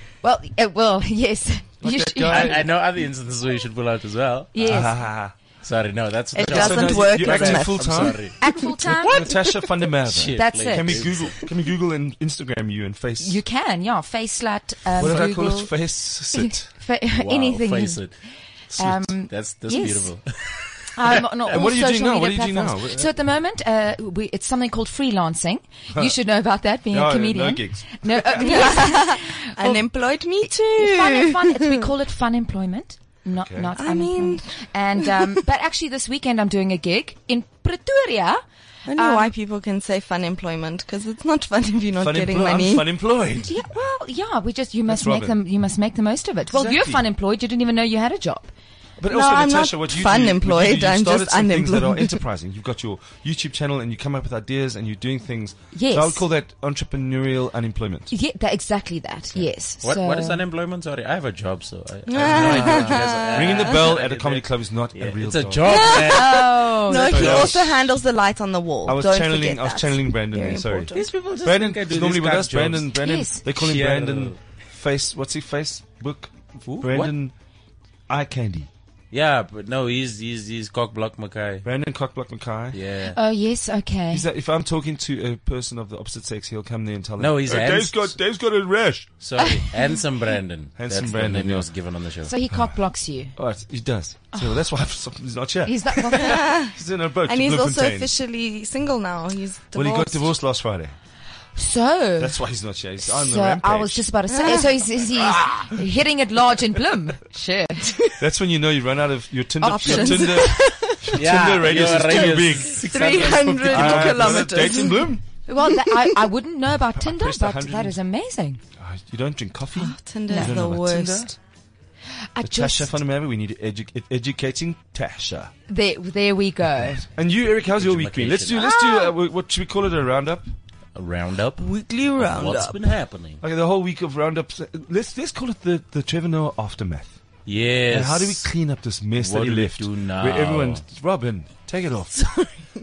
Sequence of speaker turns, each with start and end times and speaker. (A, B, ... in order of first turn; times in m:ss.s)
0:00.2-0:02.6 A
0:01.8-0:02.6 B
0:02.2-0:04.5 C
0:04.5-0:04.9 A
0:04.6-0:05.3 B
0:05.6-0:09.4 C
0:06.3-0:08.1 D
0:06.4-0:13.4 B
0:08.4-0:09.2 A
0:10.0-0:11.5 C
0:10.3-0:11.1 A
0:13.2-0:18.1 A
0:15.0-0:16.7 B
0:17.1-0:18.1 C
0:18.7-0:19.0 B
0:18.7-0:20.2 A
0:19.1-0:20.7 C
0:20.9-0:29.8 A
0:21.4-0:23.1 B
0:26.9-0:28.7 B
0:28.4-0:31.6 D
0:30.4-0:38.4 A
0:33.3-0:33.7 B
0:33.8-0:35.1 D
0:38.9-0:42.9 D
0:38.9-0:39.3 A
0:42.0-0:43.6 B
0:43.5-0:48.5 A
0:44.9-0:45.4 B
0:46.5-0:47.0 B
0:49.0-0:58.1 B
0:49.1-0:52.2 D
0:55.7-0:56.2 A
0:58.1-1:00.4 A
0:59.3-1:07.7 C
1:02.1-1:03.9 D
1:02.2-1:06.1 B
1:05.7-1:11.1 D
1:06.0-1:07.4 A
1:07.0-1:07.8 B
1:08.8-1:10.9 B
1:10.9-1:12.9 C
1:11.4-1:17.3 B
1:13.0-1:13.4 A
1:13.4-1:14.5 C
1:16.7-1:17.1 C
1:18.1-1:18.7 B
1:19.1-1:21.7 C
1:21.6-1:22.8 B
1:22.7-1:23.2 C
1:23.1-1:24.2 A
1:24.1-1:29.1 B
1:27.2-1:28.1 C
1:29.2-1:32.3 C
1:29.4-1:29.7 A
1:30.8-1:31.7 B
1:32.3-1:33.4 A
1:32.5-1:32.8 B
1:33.4-1:38.1 B
1:35.6-1:36.4 A
1:36.2-1:36.7 D
1:37.3-1:40.3 D
1:39.7-1:40.9 B
1:41.6-1:42.4 A
1:42.2-1:44.1 B
1:43.0-1:48.0 A
1:44.3-1:44.6 D
1:45.2-1:45.7 C
1:48.2-1:52.8 B
1:49.6-1:51.2 D
1:49.6-1:50.5 A
1:51.1-1:54.7 C
1:52.0-1:56.2 D
1:53.6-1:55.2 B
1:55.4-1:58.6 A
1:57.0-1:58.0 B
1:58.8-2:01.4 B
1:59.7-2:01.3 D
2:00.3-2:00.6 A
2:02.1-2:02.9 A
2:02.4-2:05.5 B
2:05.7-2:07.0 A
2:06.8-2:10.4 B
2:07.8-2:08.7 C
2:08.6-2:09.1 D
2:11.0-2:13.4 C
2:11.6-2:12.8 D
2:13.4-2:17.2 B
2:17.4-2:18.5 C
2:17.9-2:22.1 B
2:19.2-2:20.8 C
2:22.2-2:22.6 D